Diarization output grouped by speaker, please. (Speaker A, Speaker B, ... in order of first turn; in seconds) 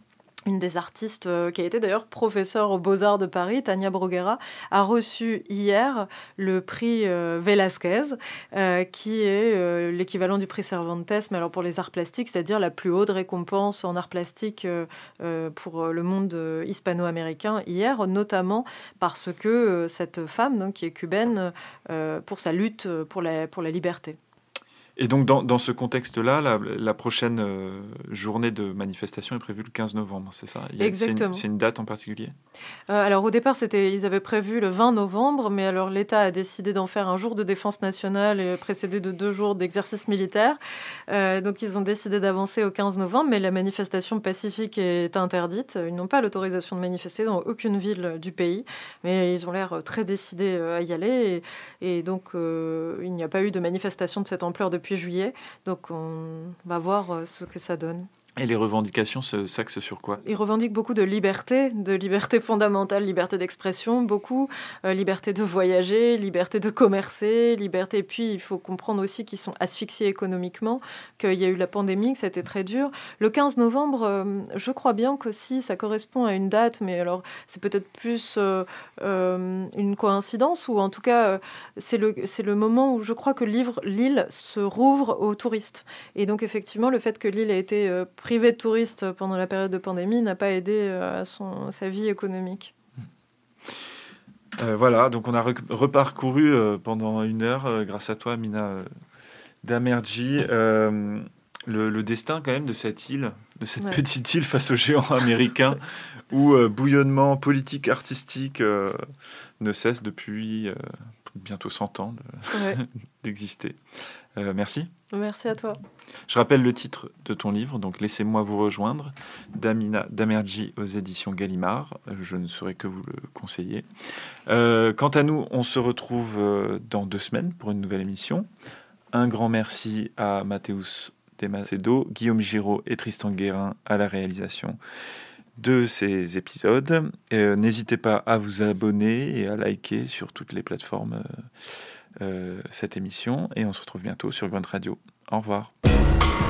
Speaker A: 0.5-24.2, 30.8-31.4, 32.9-40.6, 41.1-58.1, 60.2-92.7, 112.5-112.8, 115.1-115.8
Speaker B: 25.0-32.3, 58.4-60.2, 94.6-98.9, 99.6-105.8, 106.3-109.0, 109.6-113.8, 114.4-114.9, 116.3-123.9, 124.5-128.5, 129.1-134.8, 135.6-141.5, 142.2-145.7